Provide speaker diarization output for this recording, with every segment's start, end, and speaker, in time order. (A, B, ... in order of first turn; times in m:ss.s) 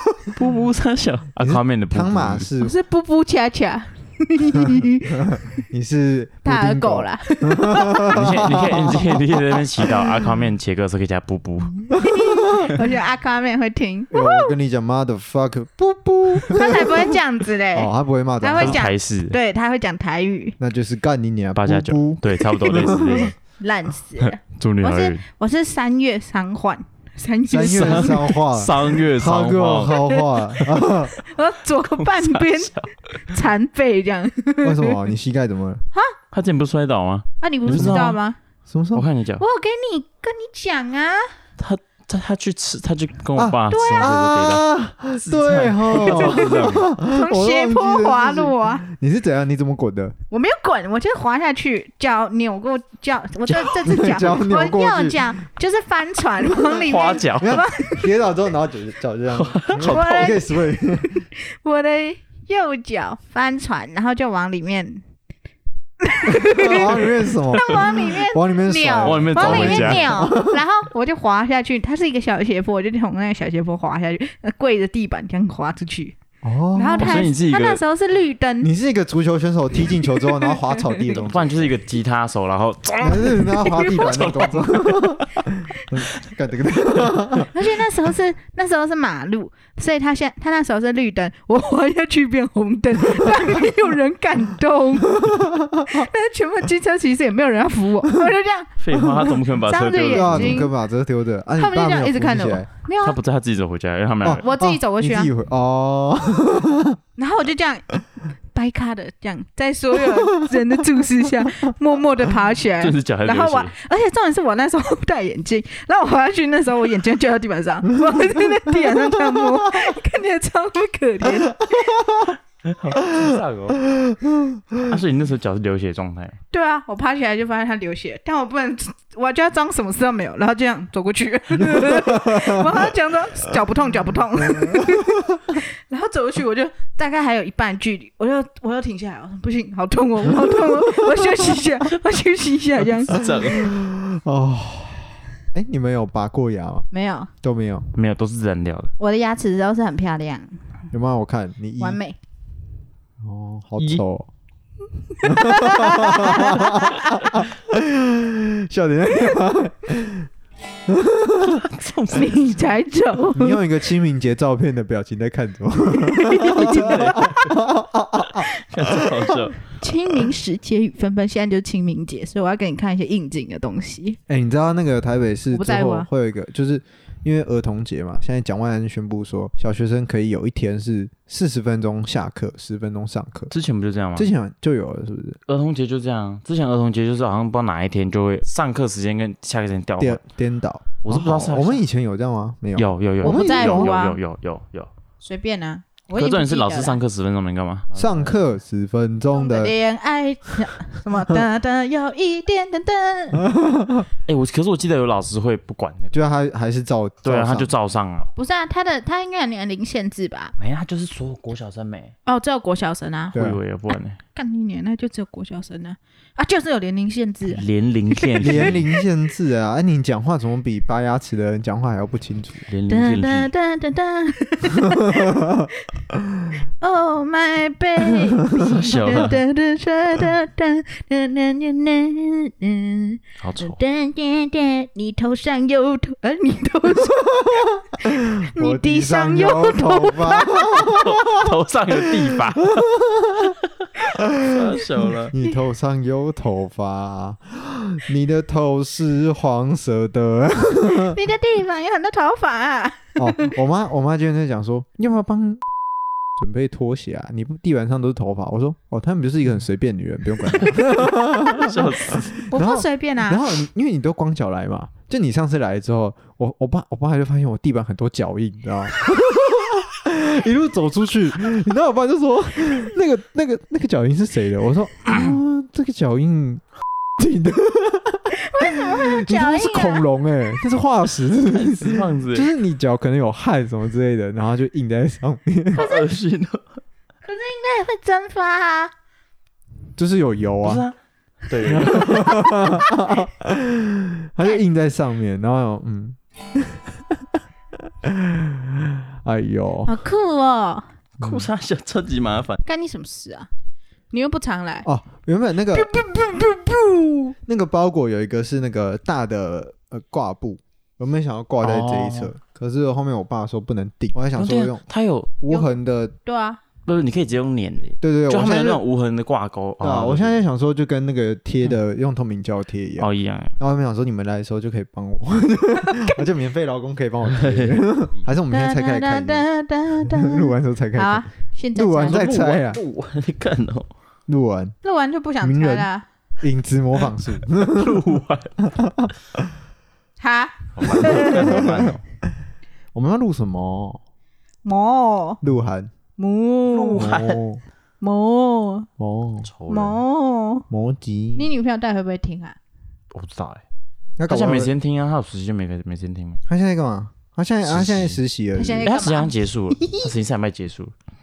0:00.3-0:02.5 A
0:01.4-0:02.7 B
0:02.6-0:05.6 C
0:04.6-0:10.1 B
0:06.4-0:08.4 C
0:08.1-0:11.9 A
0:11.9-0:12.7 B
0:11.9-0:14.5 C
0:14.1-0:17.2 B
0:16.3-0:20.6 C
0:17.7-0:18.8 B
0:18.6-0:19.4 A
0:20.6-0:23.3 B
0:21.6-0:23.3 A
0:23.1-0:28.3 C
0:24.2-0:25.2 A
0:27.5-0:31.1 B
0:27.7-0:30.8 A
0:31.1-0:35.0 C
0:32.0-0:32.9 A
0:34.6-0:35.8 B
0:36.3-0:38.2 A
0:37.4-0:38.4 C
0:37.7-0:38.0 B
0:38.7-0:39.0 B
0:38.9-0:39.4 A
0:39.4-0:41.3 C
0:41.6-0:44.6 A
0:43.4-0:50.1 B
0:43.7-0:44.1 C
0:45.2-0:46.9 A
0:46.0-0:48.8 C
0:50.3-0:58.1 C
0:53.5-0:53.9 A
0:53.8-0:55.2 B
0:56.7-0:57.6 A
0:57.4-1:01.2 B
0:59.3-1:00.4 A
0:59.9-1:05.0 C
1:06.0-1:16.2 C
1:06.3-1:10.6 B
1:09.0-1:10.1 A
1:16.4-1:17.3 B
1:16.7-1:18.7 C
1:17.0-1:17.8 A
1:18.6-1:21.8 B
1:20.4-1:21.0 C
1:21.1-1:25.3 A
1:23.0-1:27.6 B
1:23.6-1:24.0 C
1:27.5-1:35.3 C
1:33.2-1:33.6 B
1:35.1-1:36.1 B
1:35.8-1:40.7 C
1:38.8-1:40.6 A
1:40.1-1:42.7 B
1:41.6-1:43.2 C
1:43.0-1:44.4 A
1:44.2-1:47.0 B
1:44.4-1:45.3 C
1:47.2-1:48.0 C
1:48.5-2:02.0 C
1:50.0-1:50.8 B
1:52.8-1:53.7 A
1:59.1-1:59.8 B
2:01.7-2:02.4 B
2:02.6-2:03.8 A
2:03.0-2:05.0 B
2:04.8-2:06.4 A
2:06.5-2:23.3 C
2:11.6-2:12.8 B
2:14.5-2:15.4 B
2:20.4-2:21.6 B
2:22.9-2:23.7 A
2:23.2-2:26.8 B
2:26.9-2:27.3 C
2:27.4-2:27.9 B
2:27.9-2:28.9 A
2:29.0-2:30.6 C
2:30.9-2:32.0 B
2:31.8-2:32.2 C
2:33.2-2:34.3 B
2:35.1-2:37.4 C
2:35.2-2:40.3 B
2:40.9-2:41.6 B
2:41.4-2:42.4 A
2:42.1-2:43.6 C
2:43.3-2:49.4 B
2:46.0-2:47.5 C
2:46.5-2:47.3 A
2:48.4-2:49.6 A
2:49.8-2:54.2 C
2:54.3-3:03.5 B
2:55.5-2:56.1 C
3:03.5-3:04.3 A
3:04.2-3:05.4 B
3:05.5-3:10.2 A
3:10.0-3:13.9 B
3:11.0-3:11.8 A
3:12.8-3:14.9 A
3:13.2-3:14.2 C
3:15.2-3:17.0 C
3:16.2-3:18.4 A
3:17.9-3:19.7 B
3:19.3-3:23.5 C
3:23.4-3:24.1 B
3:24.2-3:26.2 A
3:26.1-3:27.7 B
3:27.2-3:28.3 A
3:28.4-3:30.5 C
3:30.6-3:32.1 A
3:32.2-3:33.4 C
3:33.3-3:33.6 B
3:33.3-3:34.2 A
3:34.3-3:37.6 C
3:37.5-3:38.9 A
3:38.1-3:39.0 C
3:38.4-3:42.7 B
3:42.7-3:43.5 A
3:42.9-3:45.7 C
3:44.8-3:45.7 B
3:46.8-4:01.0 C
3:48.6-3:49.4 A
3:53.4-3:53.8 A
3:57.1-4:03.6 B
4:00.8-4:02.9 A
4:03.4-4:05.3 A
4:04.1-4:11.2 B
4:10.9-4:13.5 C
4:13.2-4:15.6 B
4:16.4-4:36.6 B
4:20.6-4:21.5 C
4:20.7-4:22.4 A
4:22.1-4:23.4 C
4:37.2-4:45.8 B
4:38.3-4:40.0 C
4:41.5-4:42.5 A
4:45.7-4:46.8 A
4:45.8-4:46.0 C
4:47.2-4:48.9 C
4:50.0-4:50.8 B
4:50.6-4:50.9 A
4:51.5-4:52.5 A
4:51.7-4:57.4 B
4:51.9-4:53.1 C
4:58.0-5:00.0 B
4:59.8-5:00.9 C
5:01.2-5:02.6 A
5:01.2-5:01.4 B
5:02.6-5:03.5 C
5:04.1-5:04.9 C
5:04.8-5:05.9 B
5:05.7-5:07.3 C
5:07.4-5:14.8 B
5:11.6-5:12.3 A
5:14.3-5:15.3 A
5:15.4-5:16.1 B
5:16.2-5:16.6 C
5:16.8-5:20.4 A
5:18.0-5:18.8 B
5:19.8-5:29.4 B
5:23.0-5:23.5 A
5:27.3-5:27.9 A
5:28.5-5:32.2 C
5:30.0-5:32.8 B
5:32.0-5:33.9 A
5:34.3-5:34.8 B
5:34.8-5:36.0 C
5:35.4-5:35.9 B
5:36.4-5:38.0 B
5:37.6-5:38.6 A
5:38.6-5:39.5 B
5:40.2-5:41.7 C
5:40.8-5:42.0 A
5:41.2-5:41.9 B
5:42.9-5:44.0 B
5:44.6-5:45.4 C
5:45.4-5:45.9 B
5:46.2-5:47.2 C
5:46.7-5:47.4 A
5:47.0-5:47.6 B
5:48.0-5:48.9 C
5:49.0-5:49.5 B
5:49.4-5:50.0 A
5:49.7-5:50.7 C
5:50.7-5:51.5 B
5:51.4-5:52.6 C
5:53.1-5:53.6 A
5:54.2-5:54.7 B
5:54.3-5:56.4 A
5:56.5-5:58.9 B
5:57.6-5:58.2 A
5:58.6-6:00.1 C
5:58.8-6:00.9 A